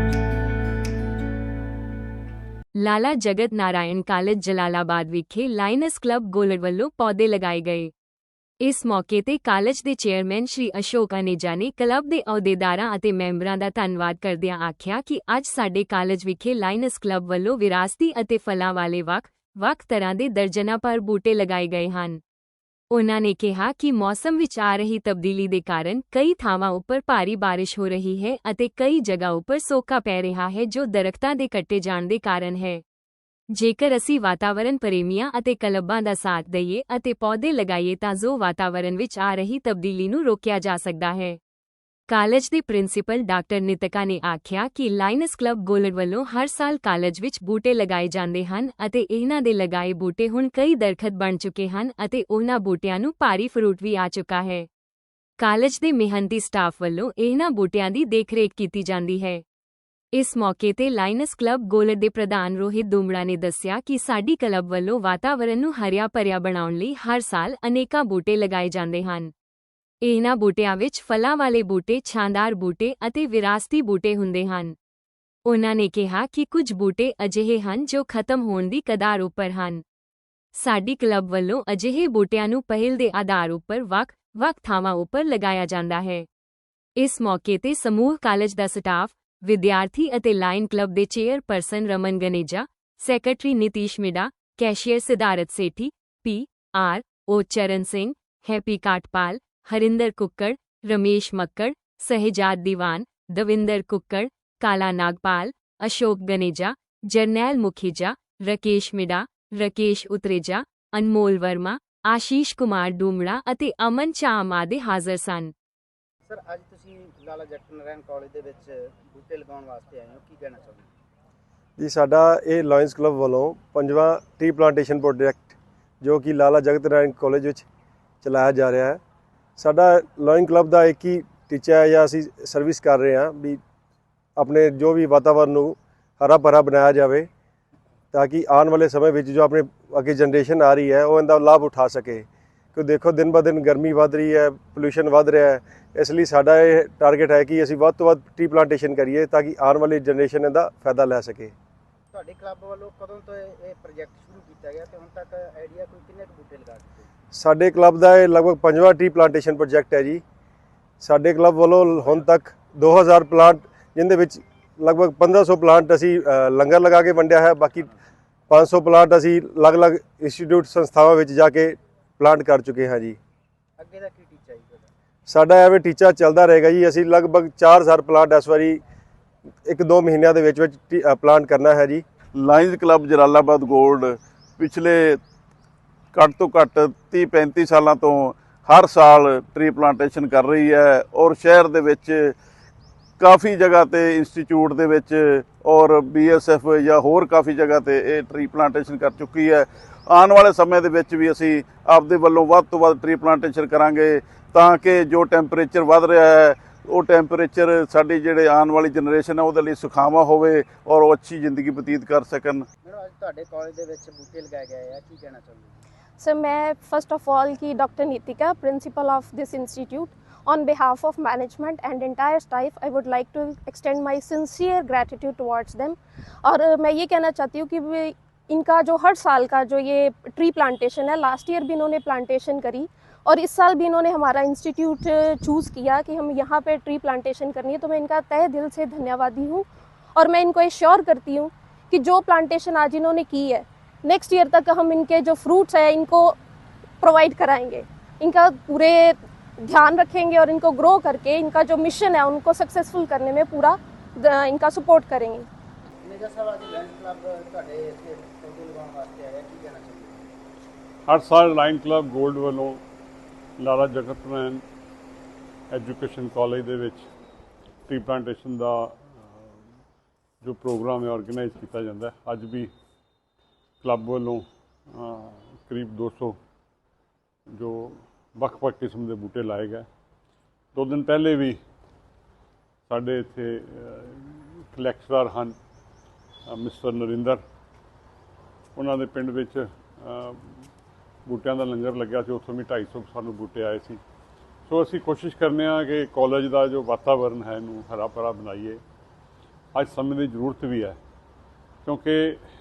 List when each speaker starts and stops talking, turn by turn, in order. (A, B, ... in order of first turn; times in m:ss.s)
0:02.8-0:07.9 A
0:08.6-0:22.2 A
0:22.9-0:32.8 A
0:33.5-0:41.4 A
0:42.1-0:54.7 A
0:55.4-0:59.4 A
1:00.1-1:09.3 A
1:10.0-1:14.7 A
1:15.4-1:19.8 A
1:20.5-1:26.2 A
1:27.0-1:55.5 A
1:56.3-1:58.6 B
1:59.2-2:00.9 B
2:01.8-2:07.6 C
2:08.2-2:09.0 C
2:09.6-2:13.6 C
2:14.4-2:17.3 C
2:18.1-2:31.5 C
2:32.1-2:37.1 B
2:37.3-2:40.2 C
2:41.0-2:47.9 C
2:48.5-2:53.2 C
2:53.8-2:54.9 B
2:55.3-2:58.8 C
2:59.6-3:02.0 C
3:02.3-3:05.2 D
3:06.1-3:12.3 D
3:13.2-3:32.6 D
3:32.8-3:35.7 B
3:36.2-4:06.4 E
4:07.0-4:15.5 E
4:16.0-4:20.3 B
4:21.0-4:22.8 F
4:23.6-4:24.6 F
4:25.7-4:27.0 F
4:27.9-4:29.0 F
4:30.4-4:32.7 F
4:33.8-4:36.4 F
4:37.5-4:39.8 F
4:40.7-4:41.6 F
4:42.9-4:45.6 F
4:46.5-4:47.4 F
4:48.7-4:50.6 F
4:51.2-4:54.0 F
4:54.7-4:58.8 F
4:59.7-5:01.0 F
5:01.8-5:02.4 F